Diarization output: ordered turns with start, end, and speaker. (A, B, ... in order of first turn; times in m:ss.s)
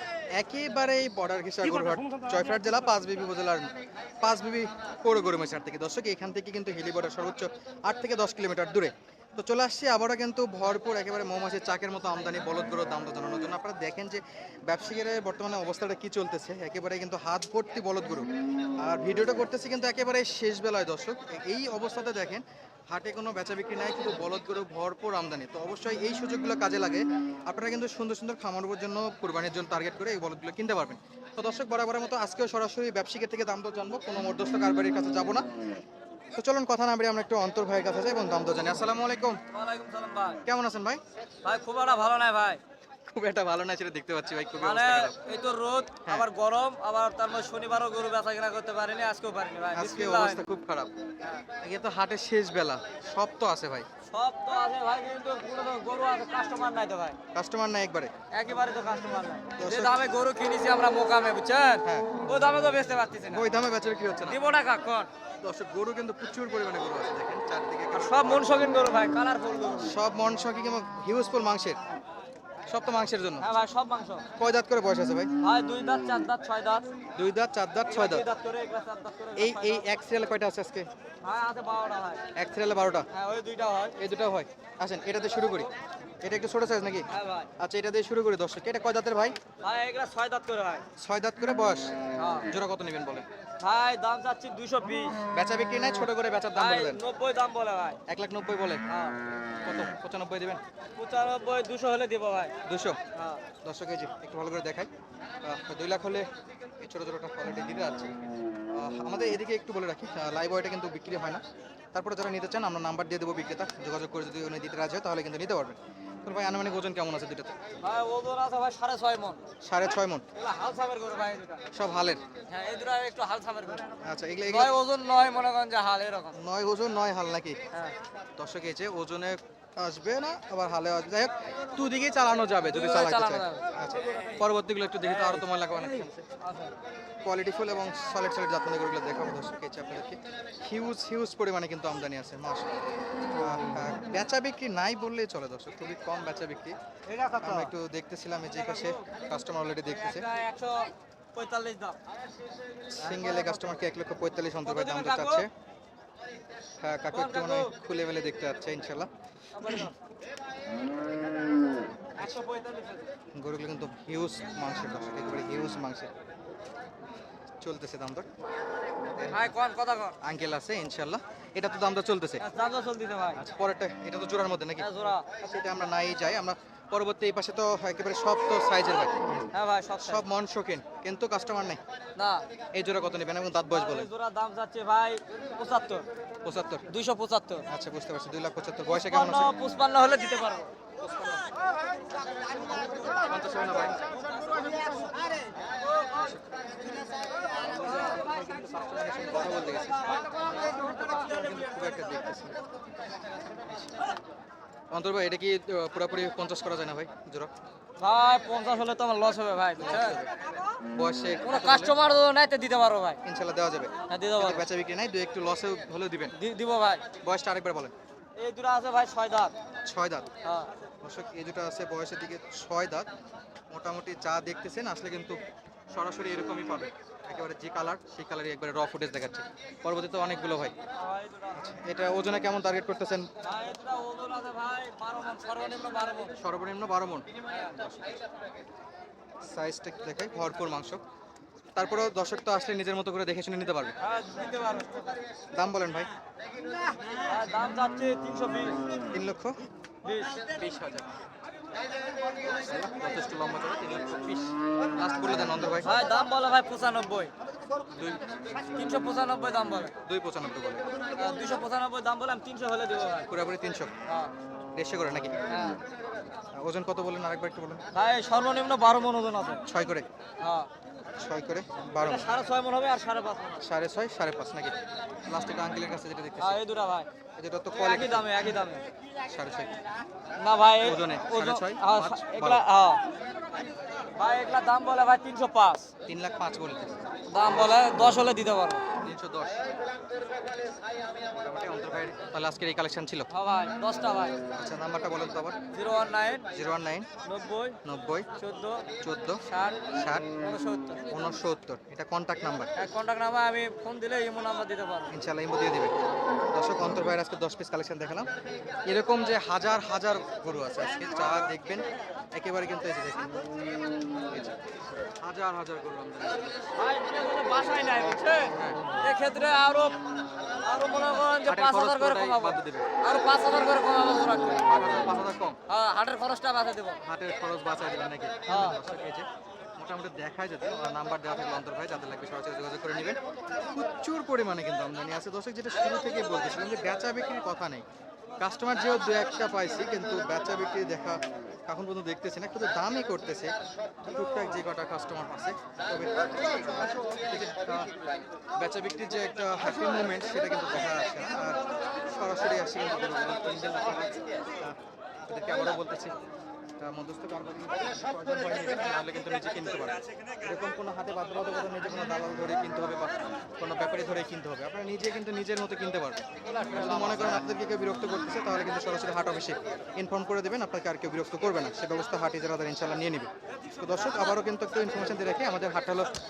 0:00.3-0:03.7 A
0:04.2-0:18.3 A
0:18.8-0:35.5 A
0:36.4-0:39.4 A
0:39.5-0:40.4 B
0:40.4-0:41.0 A
0:41.4-0:42.6 B
0:43.1-0:45.2 A
0:44.6-0:50.4 B
0:49.7-0:50.9 A
0:51.6-0:53.9 A
0:54.1-0:57.2 B
0:57.3-0:58.1 A
0:58.3-1:03.4 B
0:59.6-1:00.0 A
1:01.8-1:02.2 A
1:03.3-1:04.4 A
1:04.2-1:05.1 B
1:05.4-1:08.7 A
1:07.9-1:09.9 B
1:09.8-1:11.8 A
1:12.7-1:13.5 A
1:13.4-1:14.2 B
1:14.3-1:15.3 A
1:15.4-1:16.9 B
1:17.2-1:18.2 A
1:17.9-1:19.9 B
1:19.4-1:20.9 A
1:21.2-1:22.2 B
1:22.3-1:23.1 A
1:23.1-1:24.0 B
1:24.0-1:25.7 A
1:26.2-1:29.4 A
1:27.1-1:27.5 B
1:29.6-1:30.8 B
1:31.0-1:31.9 A
1:32.2-1:32.5 B
1:32.5-1:33.2 A
1:33.6-1:35.2 B
1:35.3-1:37.0 A
1:36.5-1:38.0 B
1:38.1-1:38.8 A
1:38.9-1:39.2 B
1:39.6-1:40.6 A
1:41.0-1:42.5 B
1:42.6-1:43.0 A
1:43.1-1:43.4 B
1:43.6-1:44.9 A
1:45.4-1:46.3 A
1:46.8-1:48.1 A
1:48.7-1:57.5 A
1:57.8-1:59.4 B
1:59.6-2:00.2 A
2:00.3-2:01.7 B
2:01.7-2:02.2 A
2:02.5-2:03.9 B
2:04.0-2:04.8 A
2:04.4-2:06.4 B
2:06.3-2:07.6 A
2:08.4-2:16.3 A
2:12.7-2:13.7 B
2:15.0-2:15.4 B
2:16.4-2:16.7 B
2:17.2-2:22.8 A
2:23.3-2:26.8 A
2:27.1-2:27.7 B
2:27.4-2:30.3 A
2:29.9-2:32.0 B
2:32.9-2:35.5 A
2:34.6-2:35.4 B
2:36.8-2:39.1 A
2:37.1-2:37.7 B
2:39.5-2:39.9 B
2:42.2-2:43.0 B
2:43.3-2:46.1 A
2:47.6-2:48.3 A
2:49.2-2:49.5 A
2:49.3-2:50.2 B
2:50.2-2:52.4 A
2:52.4-2:53.4 B
2:53.3-2:59.5 A
2:54.8-2:55.2 B
2:59.5-3:00.2 B
3:00.0-3:01.8 A
3:02.2-3:02.4 B
3:02.7-3:04.1 A
3:03.7-3:06.1 B
3:06.4-3:06.8 A
3:06.9-3:07.6 B
3:07.7-3:09.5 A
3:08.9-3:10.7 B
3:11.0-3:11.5 A
3:13.0-3:14.0 A
3:16.1-3:16.4 A
3:17.4-3:22.6 A
3:24.9-3:27.5 A
3:28.0-3:30.2 B
3:29.8-3:30.3 A
3:30.9-3:31.9 A
3:31.4-3:33.2 B
3:33.2-3:36.3 A
3:34.1-3:34.7 B
3:36.3-3:37.0 B
3:37.2-3:37.9 A
3:38.4-3:39.5 B
3:39.8-3:40.3 A
3:40.4-3:40.7 B
3:41.0-3:43.1 A
3:43.7-3:45.4 A
3:45.9-3:50.7 A
3:51.0-3:51.6 B
3:51.5-3:53.3 A
3:53.4-3:56.4 B
3:56.4-3:58.2 A
3:57.4-3:57.9 B
3:59.4-4:01.0 A
4:01.8-4:04.0 A
4:04.0-4:05.2 B
4:05.5-4:06.1 A
4:07.2-4:08.8 B
4:09.1-4:09.6 A
4:10.0-4:10.4 B
4:10.5-4:11.1 A
4:12.5-4:15.9 A
4:15.8-4:17.3 B
4:17.9-4:18.2 A
4:18.7-4:19.9 B
4:20.0-4:20.8 A
4:21.1-4:23.3 B
4:23.2-4:23.9 A
4:24.0-4:24.3 B
4:24.7-4:25.4 A
4:25.5-4:25.8 B
4:26.5-4:27.8 A
4:27.9-4:29.6 B
4:29.6-4:30.1 A
4:30.4-4:30.7 B
4:31.2-4:32.3 A
4:32.0-4:33.6 B
4:33.6-4:36.6 A
4:36.4-4:37.1 B
4:37.4-4:38.3 A
4:37.7-4:38.8 B
4:39.3-4:39.8 A
4:40.4-4:43.0 B
4:40.8-4:42.6 A
4:44.1-4:45.9 B
4:46.0-4:47.8 A
4:47.3-4:48.9 B
4:49.0-4:49.6 A
4:51.4-4:53.3 A
4:53.3-4:54.4 B
4:54.5-4:55.6 A
4:55.7-4:56.5 B
4:56.5-4:57.1 A
4:57.2-4:57.8 B
4:57.8-4:58.3 A
4:58.4-4:58.9 B
4:59.0-4:59.4 A
4:59.5-5:01.0 B
4:59.9-5:00.3 A
5:01.1-5:02.7 A
5:02.8-5:05.2 B
5:05.1-5:05.9 A
5:06.5-5:08.3 A
5:08.8-5:13.4 A
5:14.2-5:14.6 A
5:15.2-5:16.6 A
5:16.7-5:20.0 B
5:18.5-5:19.0 A
5:20.6-5:24.7 B
5:21.4-5:22.9 A
5:24.6-5:25.6 A
5:25.7-5:27.0 B
5:27.0-5:29.3 A
5:28.5-5:28.8 B
5:29.8-5:33.2 A
5:33.7-5:37.8 A
5:38.4-5:43.5 A
5:44.0-5:47.9 A
5:48.6-5:56.1 A
5:56.8-6:16.1 A
6:06.5-6:07.2 B